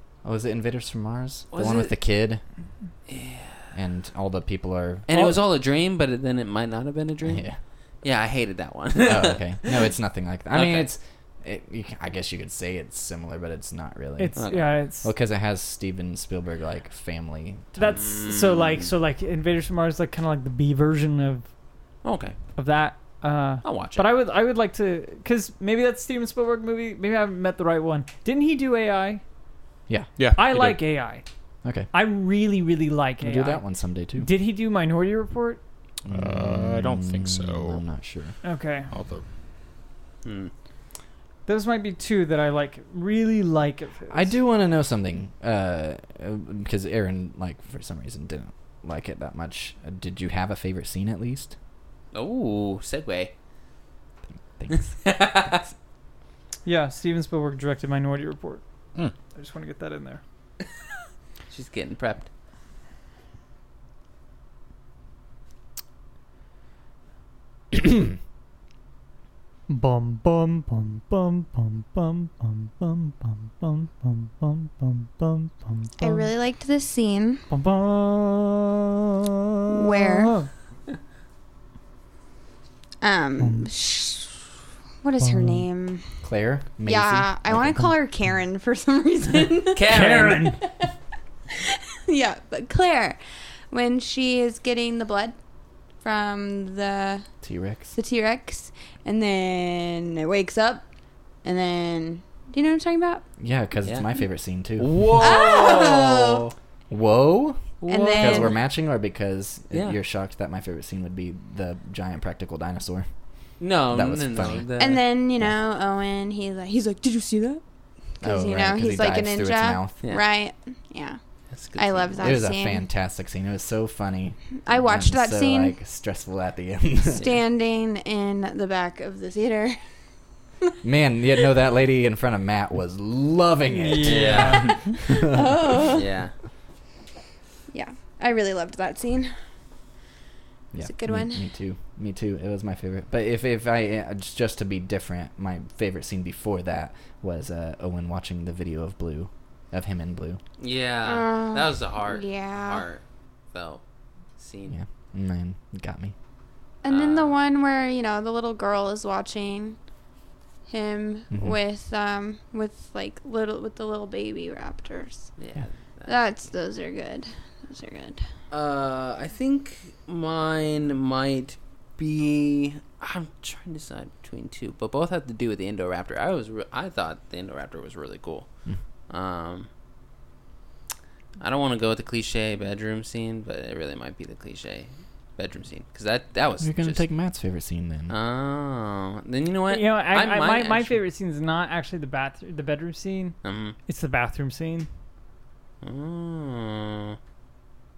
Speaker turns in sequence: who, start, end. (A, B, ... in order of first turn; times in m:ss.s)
0:00.2-0:02.4 A
0:01.5-0:01.9 B
0:03.1-0:03.6 B
0:03.7-0:05.1 A
0:05.1-0:07.4 B
0:05.1-0:05.4 C
0:07.2-0:07.6 A
0:08.0-0:09.9 B
0:09.0-0:14.4 A
0:10.5-0:10.9 B
0:14.2-0:15.1 C
0:14.4-0:14.7 B
0:15.0-0:17.7 A
0:17.7-0:21.5 C
0:17.8-0:18.9 B
0:22.0-0:22.4 B
0:22.6-0:29.2 C
0:23.6-0:24.1 B
0:30.2-0:30.8 D
0:30.4-0:31.2 C
0:31.6-0:31.9 A
0:31.9-0:35.6 C
0:33.2-0:34.3 A
0:36.0-0:37.8 D
0:36.1-0:38.3 A
0:38.4-0:38.9 C
0:38.9-0:39.2 D
0:40.2-0:40.5 B
0:41.4-0:44.4 C
0:44.1-0:51.5 A
0:52.1-0:53.3 B
0:54.6-0:55.5 A
0:54.7-0:55.6 B
0:56.6-0:58.6 C
0:59.3-1:00.2 C
1:01.5-1:02.3 B
1:09.7-1:16.3 C
1:16.0-1:17.4 E
1:17.5-1:18.7 C
1:19.6-1:20.5 C
1:19.7-1:20.4 E
1:23.0-1:24.3 E
1:23.4-1:23.7 C
1:25.0-1:26.1 E
1:25.2-1:25.6 C
1:26.2-1:27.9 A
1:26.8-1:29.9 E
1:29.7-1:30.6 B
1:29.9-1:30.6 C
1:30.6-1:30.9 E
1:31.5-1:33.2 E
1:33.7-1:35.4 E
1:36.0-1:37.3 E
1:37.4-1:37.9 A
1:37.9-1:40.8 E
1:41.4-1:43.2 E
1:43.4-1:46.4 A
1:44.8-1:46.4 B
1:45.2-1:46.4 E
1:46.9-1:53.1 A
1:47.8-1:48.6 B
1:47.9-1:48.6 E
1:49.7-1:50.0 B
1:53.6-1:55.0 B
1:53.9-1:54.7 A
1:54.8-1:57.6 E
1:58.2-2:01.2 E
1:58.2-2:00.0 A
2:01.5-2:02.4 B
2:01.8-2:02.8 E
2:02.2-2:07.2 A
2:04.6-2:05.8 E
2:07.1-2:09.8 E
2:10.8-2:15.8 A
2:13.7-2:14.8 C
2:14.0-2:14.9 B
2:15.2-2:16.1 E
2:15.9-2:16.3 B
2:17.7-2:19.3 E
2:20.7-2:30.4 A
2:20.8-2:21.4 E
2:30.6-2:33.0 B
2:31.0-2:32.8 E
2:33.5-2:33.8 B
2:34.4-2:34.8 B
2:34.7-2:36.1 A
2:36.8-2:39.8 E
2:36.9-2:37.4 B
2:40.7-2:45.3 E
2:45.4-2:46.2 B
2:46.1-2:48.2 E
2:48.5-2:58.5 B
2:59.1-2:59.7 B
3:01.4-3:07.0 B
3:06.6-3:08.1 A
3:08.1-3:11.0 B
3:09.7-3:14.9 C
3:13.4-3:13.8 B
3:15.8-3:17.2 B